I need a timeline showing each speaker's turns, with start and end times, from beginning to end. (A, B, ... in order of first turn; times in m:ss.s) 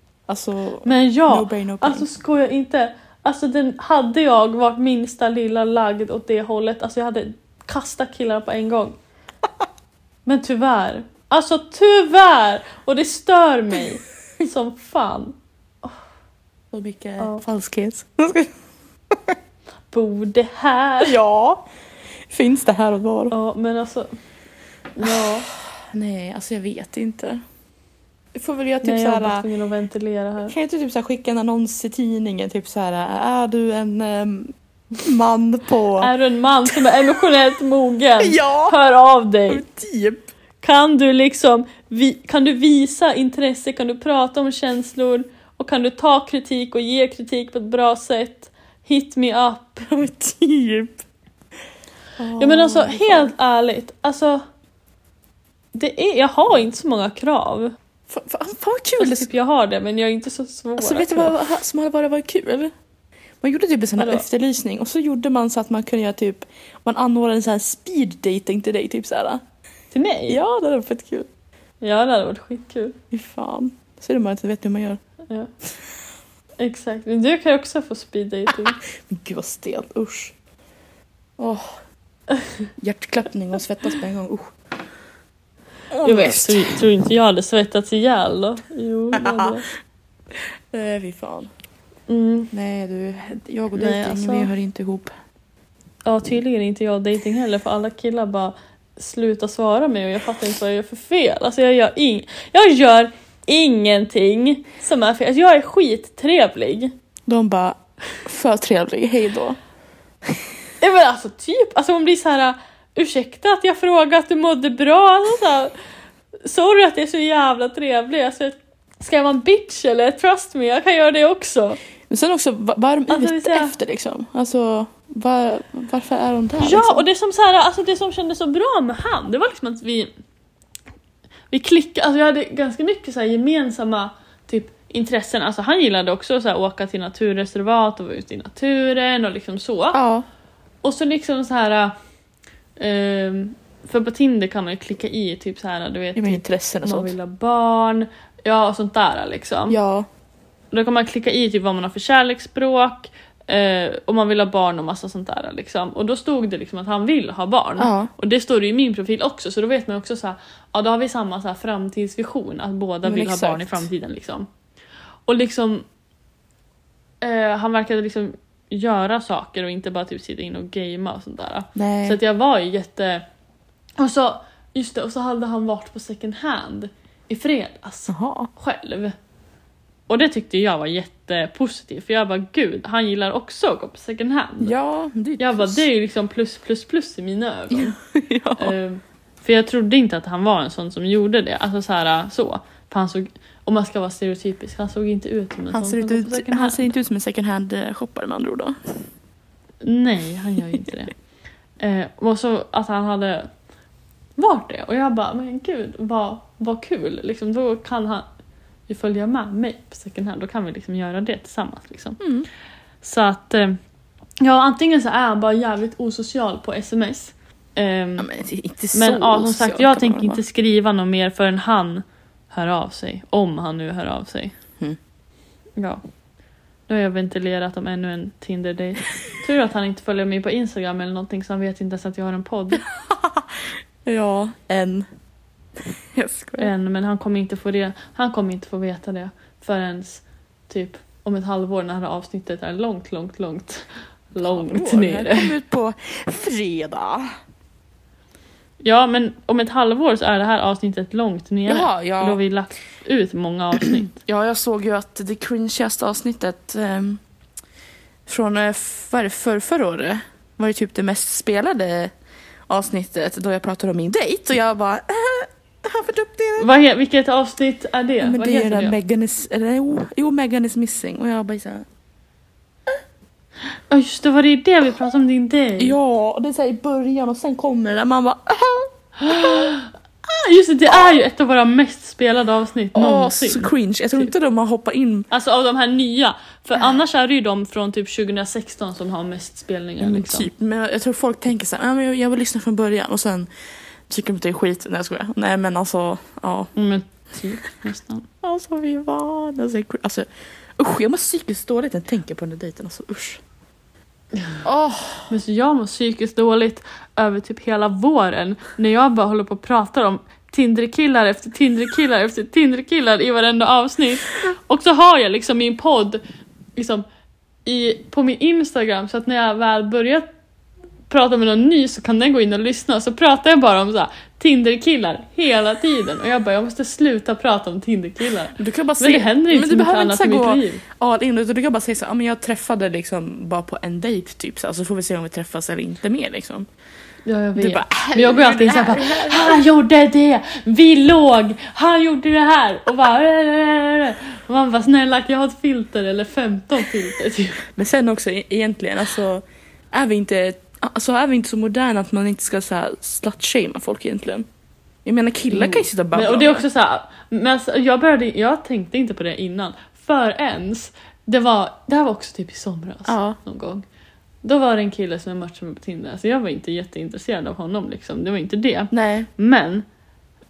0:00.3-0:02.0 A
0:00.8-0:09.0 B
0:10.2-0:15.9 B
0:16.7-0:18.5 A
0:19.1-0:19.4 A
0:19.9-0:21.2 B
0:21.0-0:21.6 A
0:22.3-0:23.3 A
0:23.3-0:24.1 B
0:25.0-0:25.5 B
0:25.0-0:27.4 A
0:28.3-0:29.4 A
0:28.8-0:30.5 B
0:30.5-0:36.1 A
0:36.0-0:39.6 B
0:36.7-0:37.3 A
0:38.2-0:38.8 A
0:39.5-0:40.3 A
0:40.6-0:49.9 B
0:49.8-0:51.0 A
0:52.2-0:53.3 A
0:52.4-0:54.4 B
0:55.7-0:57.7 B
0:58.1-0:59.3 A
0:59.0-1:01.4 B
1:00.8-1:02.7 A
1:03.4-1:09.4 A
1:04.0-1:04.2 B
1:09.9-1:10.4 B
1:10.3-1:11.3 A
1:11.8-1:13.0 B
1:13.1-1:15.0 A
1:16.6-1:18.8 B
1:19.0-1:20.3 A
1:21.4-1:21.8 A
1:22.8-1:24.5 A
1:25.9-1:26.8 A
1:26.0-1:29.7 B
1:29.1-1:29.5 A
1:30.3-1:31.5 A
1:32.1-1:32.5 B
1:32.5-1:35.1 A
1:33.7-1:34.5 B
1:36.0-1:46.9 B
1:47.3-1:49.6 A
1:50.8-1:55.7 B
1:56.4-2:01.8 B
2:02.1-2:07.0 A
2:03.1-2:03.8 B
2:06.6-2:10.1 B
2:11.5-2:20.0 B
2:19.9-2:20.2 A
2:20.8-2:21.9 B
2:22.8-2:29.8 B
2:26.1-2:27.1 A
2:29.7-2:30.1 A
2:30.7-2:44.5 B
2:37.8-2:38.1 A
2:43.0-2:43.9 A
2:45.3-2:45.8 B
2:47.2-2:53.2 B
2:51.7-2:52.2 A
2:54.0-2:59.1 B
2:58.1-2:58.5 A
3:00.1-3:04.7 B
3:04.6-3:05.8 A
3:05.4-3:08.0 B
3:07.7-3:08.7 A
3:08.6-3:16.9 B
3:15.7-3:19.0 A
3:19.8-3:21.1 B
3:21.8-3:23.5 B
3:24.4-3:28.2 B
3:28.9-3:32.2 B
3:32.2-3:32.5 A
3:33.0-3:33.8 B
3:34.4-3:38.3 B
3:38.2-3:40.4 A
3:38.9-3:44.6 B
3:45.8-3:46.0 B
3:46.9-3:52.8 B
3:52.7-3:55.1 A
3:55.8-3:56.7 A
3:56.6-4:05.5 B
4:04.4-4:07.3 A
4:08.8-4:14.2 B
4:11.7-4:12.4 A
4:13.7-4:17.2 A
4:18.3-4:22.1 A
4:22.7-4:26.7 A
4:26.6-4:29.0 B
4:28.2-4:31.8 A
4:33.9-4:36.0 B
4:35.8-4:39.7 A
4:39.2-4:44.3 B
4:42.9-4:45.3 A
4:45.3-4:50.5 B
4:50.0-4:53.5 A
4:54.1-4:56.7 A
4:56.8-4:58.2 B
4:58.4-5:03.4 A
5:04.6-5:05.3 A
5:05.3-5:16.2 B
5:16.8-5:17.0 B
5:17.6-5:20.3 B
5:21.1-5:30.8 B
5:28.6-5:36.7 A
5:37.2-5:47.6 B
5:37.6-5:39.6 A
5:47.6-5:54.4 A
5:55.0-5:56.6 A
5:55.5-6:03.8 B
6:03.1-6:03.4 A
6:04.4-6:09.8 B
6:08.9-6:09.3 A